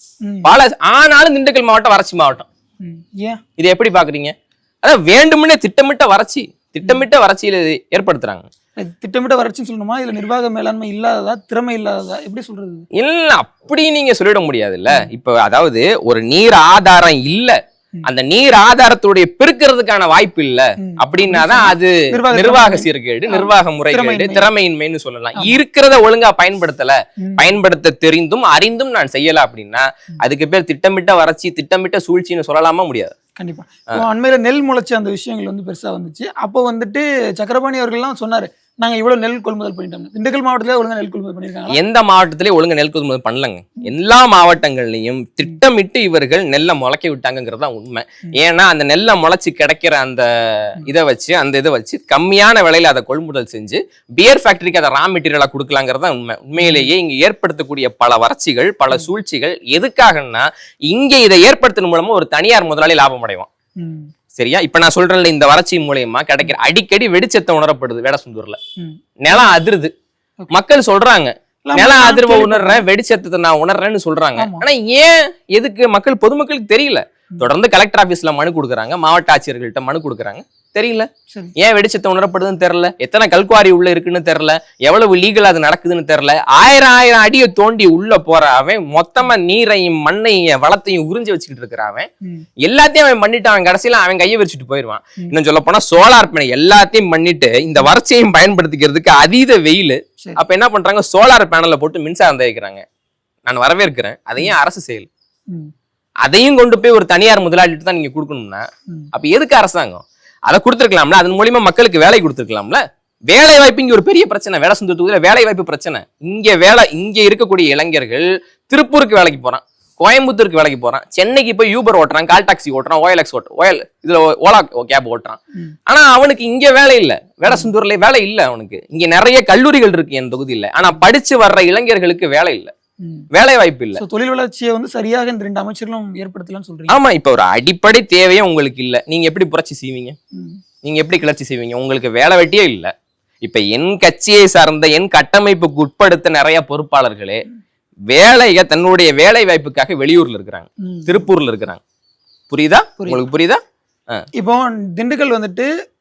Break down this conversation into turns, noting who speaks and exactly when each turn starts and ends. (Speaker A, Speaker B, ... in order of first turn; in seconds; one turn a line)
Speaker A: 0.4-2.5
Speaker B: 2.8-3.4
Speaker A: 3.6-8.5
Speaker B: 8.8-12.8
Speaker A: 13.0-33.1
Speaker B: 20.8-24.5
Speaker B: 27.2-27.5
Speaker B: 33.4-41.8
Speaker A: 41.7-63.5
Speaker B: 56.6-56.9
Speaker B: 63.8-64.1
Speaker A: 64.3-68.6
Speaker A: 69.2-69.9
Speaker A: 70.5-92.1
Speaker B: 71.7-72.8
Speaker B: 74.4-74.7
Speaker A: 92.6-102.8
Speaker A: 103.5-105.1
Speaker A: 106.3-132.7
Speaker B: 133.0-133.3
Speaker A: 133.3-134.0
Speaker B: 134.0-137.0
Speaker A: 136.9-140.2
Speaker B: 140.3-140.6
Speaker A: 140.8-142.9
Speaker A: 143.4-147.4
Speaker A: 148.1-151.8
Speaker B: 150.8-151.2
Speaker A: 152.5-153.6
Speaker B: 154.3-155.7